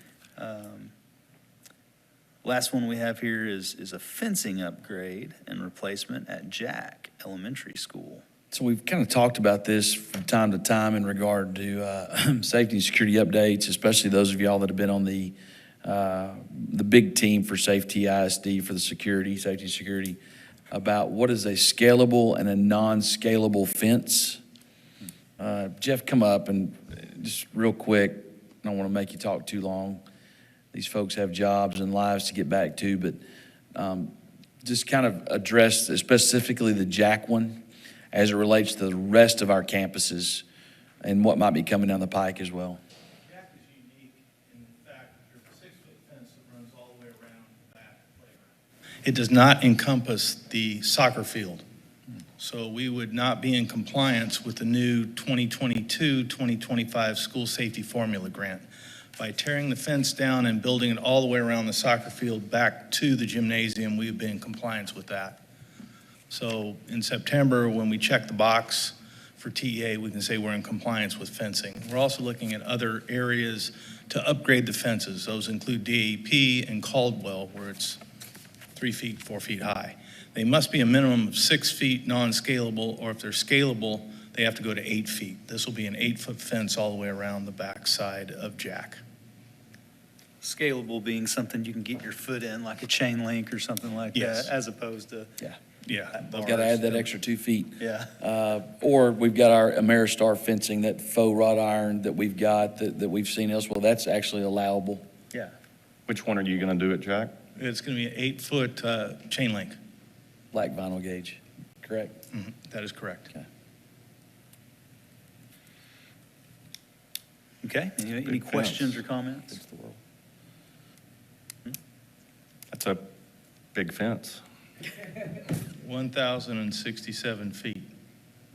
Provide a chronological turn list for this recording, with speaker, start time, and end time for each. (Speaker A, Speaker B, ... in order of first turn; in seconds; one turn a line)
Speaker A: 0.4-0.9
Speaker A: 2.4-8.2
Speaker B: 8.5-20.2
Speaker B: 20.7-24.4
Speaker B: 25.4-30.0
Speaker B: 30.7-33.2
Speaker B: 33.7-37.6
Speaker B: 38.1-40.4
Speaker B: 41.0-42.8
Speaker C: 43.3-48.4
Speaker C: 49.0-51.6
Speaker C: 52.4-58.6
Speaker C: 59.2-65.4
Speaker C: 66.3-78.0
Speaker C: 78.7-89.0
Speaker A: 90.4-95.3
Speaker C: 94.1-94.5
Speaker C: 95.8-97.0
Speaker B: 96.3-105.0
Speaker A: 97.8-98.1
Speaker D: 106.1-107.3
Speaker C: 107.5-109.7
Speaker B: 110.5-112.2
Speaker C: 112.3-113.3
Speaker A: 117.6-119.6
Speaker D: 118.2-119.0
Speaker B: 119.5-120.0
Speaker D: 122.7-123.1
Speaker D: 123.7-124.4
Speaker C: 125.7-127.9